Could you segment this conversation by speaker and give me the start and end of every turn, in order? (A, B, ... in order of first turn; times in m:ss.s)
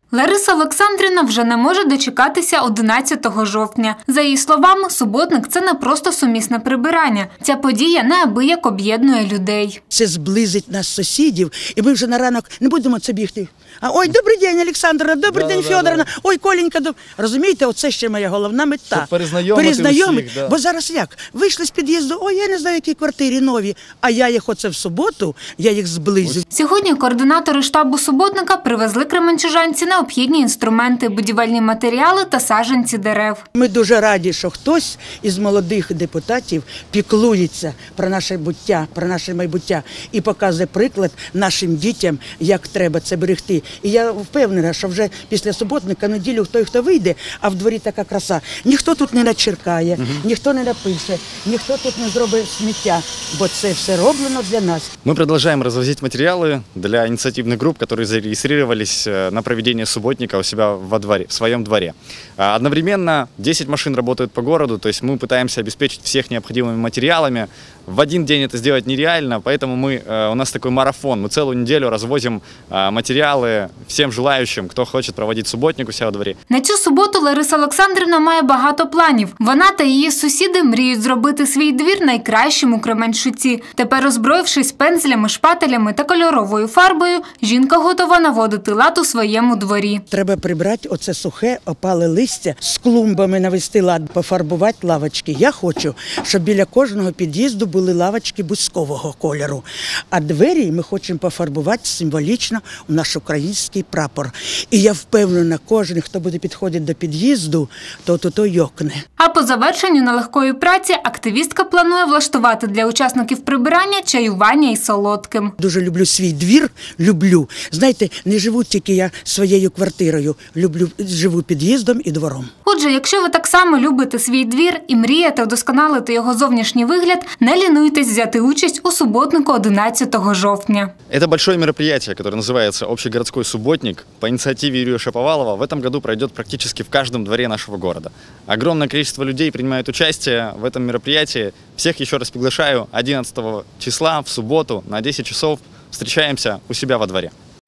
0:00.1-0:09.8 A
0:09.9-0:26.4 B
0:26.5-0:33.4 A
0:33.6-0:54.9 B
0:55.0-1:16.4 C
1:16.5-1:30.0 A
1:30.1-1:49.0 B
1:49.2-1:55.5 A
1:55.6-2:02.5 B
2:02.6-2:10.9 A
2:11.1-2:27.3 C